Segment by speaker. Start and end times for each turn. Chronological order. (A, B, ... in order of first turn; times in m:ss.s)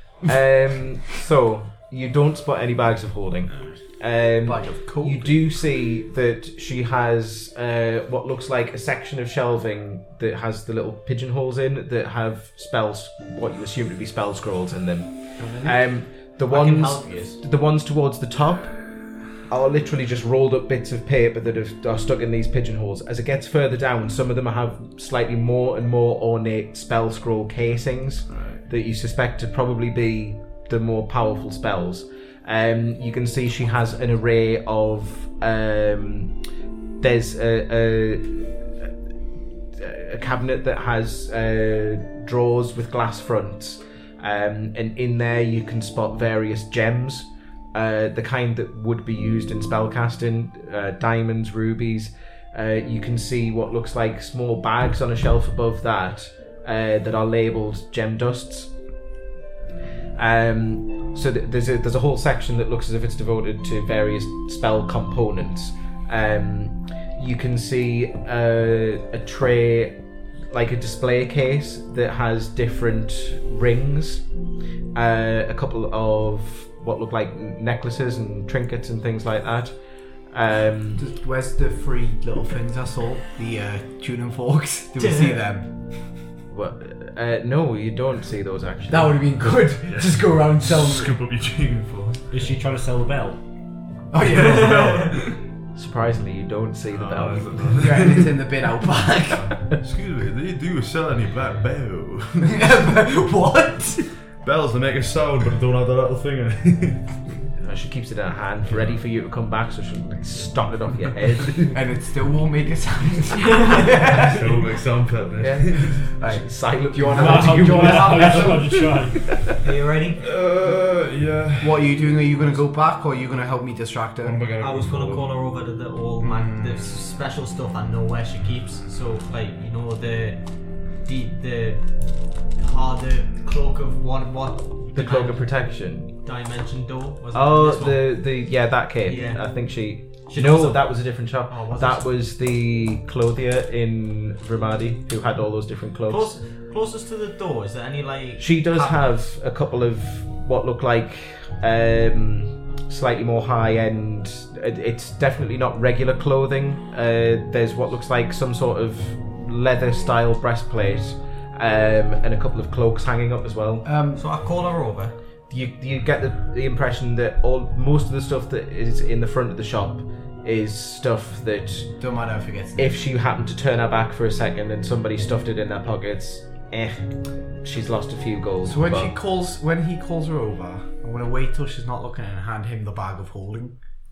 0:00.2-0:36.3 A
0:04.4-0:05.4 B
0:15.4-0:15.8 B
0:16.5-0:17.4 C
0:28.3-0:28.6 D
0:37.0-0:38.5 A
0:39.7-0:58.7 A
1:00.2-1:09.9 A
1:10.5-1:14.2 A
1:14.9-1:19.8 A
1:20.3-1:21.0 A
1:21.0-1:25.7 B
1:25.0-1:25.4 C
1:26.5-1:29.3 A
1:28.9-1:31.2 B
1:29.9-1:32.2 D
1:32.3-1:33.4 E
1:34.1-1:34.9 B
1:34.2-1:35.4 D
1:34.2-1:35.1 C
1:35.8-1:38.0 A
1:36.9-1:38.4 D
1:37.8-1:39.6 B
1:39.4-1:42.6 D
1:42.4-1:44.1 B
1:44.4-1:47.2 D
1:47.6-1:51.8 A
1:48.7-1:48.9 D
1:51.7-1:54.5 B
1:54.0-1:56.0 D
1:55.4-1:59.5 A
1:56.1-1:58.7 B
1:57.1-1:59.4 E
1:58.1-1:58.5 D
1:59.6-2:00.2 C
2:00.2-2:02.5 D
2:01.6-2:04.4 B
2:04.2-2:05.3 D
2:04.6-2:10.4 C
2:11.0-2:11.8 C
2:12.5-2:15.4 C
2:14.9-2:16.1 A
2:16.2-2:18.1 C
2:17.3-2:26.3 A
2:19.0-2:19.4 C
2:20.3-2:20.9 C
2:21.5-2:22.1 C
2:26.1-2:29.2 C
2:28.4-2:43.8 A
2:43.8-2:44.2 B
2:44.2-2:45.1 C
2:45.5-2:51.9 A
2:52.0-2:53.0 B
2:52.8-2:59.1 A
2:58.6-3:03.7 B